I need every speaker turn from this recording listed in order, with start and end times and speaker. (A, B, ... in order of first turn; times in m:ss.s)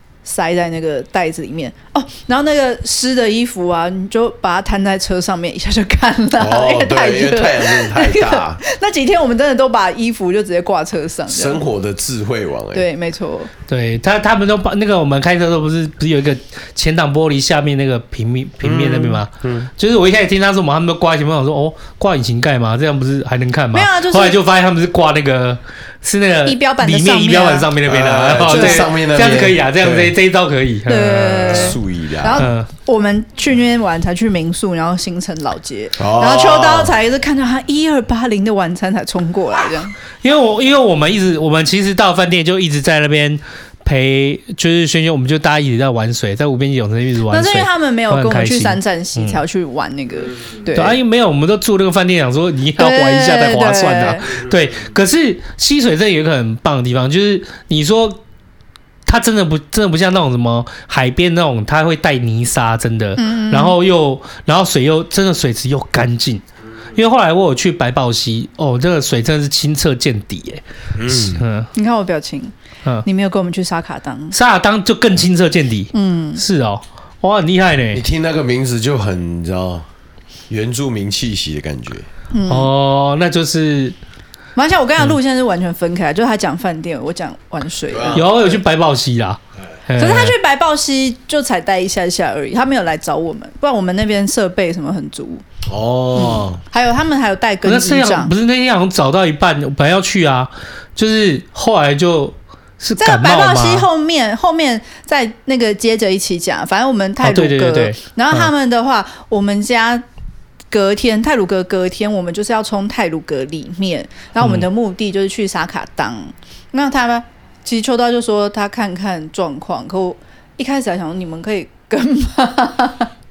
0:00.2-0:11.6 A
0:06.4-0:08.6 B
0:11.3-0:12.9 B
0:12.7-0:13.5 A
0:13.7-0:31.8 C
0:18.6-0:19.7 B
0:23.7-0:24.4 A
0:26.5-0:27.7 A
0:27.9-0:30.1 B
0:28.5-0:28.9 A
0:30.9-0:39.9 A
0:31.5-0:32.4 B
0:32.4-0:32.7 C
0:36.0-0:36.9 B
0:40.2-0:49.4 C
0:47.3-0:51.0 A
0:50.7-0:58.2 C
0:52.8-0:54.3 A
0:59.1-1:06.4 C
1:03.2-1:03.8 A
1:06.9-1:10.6 C
1:11.0-1:11.4 B
1:11.1-1:11.7 C
1:11.7-1:12.5 A
1:13.0-1:14.4 A
1:14.3-1:18.0 C
1:15.9-1:16.4 A
1:17.9-1:19.8 B
1:20.5-1:22.1 B
1:22.3-1:22.7 A
1:22.5-1:24.0 C
1:24.6-1:28.3 A
1:27.9-1:28.6 B
1:28.1-1:30.4 C
1:30.0-1:35.4 A
1:35.7-1:36.6 B
1:36.2-1:38.3 A
1:37.6-1:43.9 C
1:43.0-1:50.0 A
1:47.2-1:48.5 C
1:50.7-2:03.1 A
1:54.4-1:54.7 C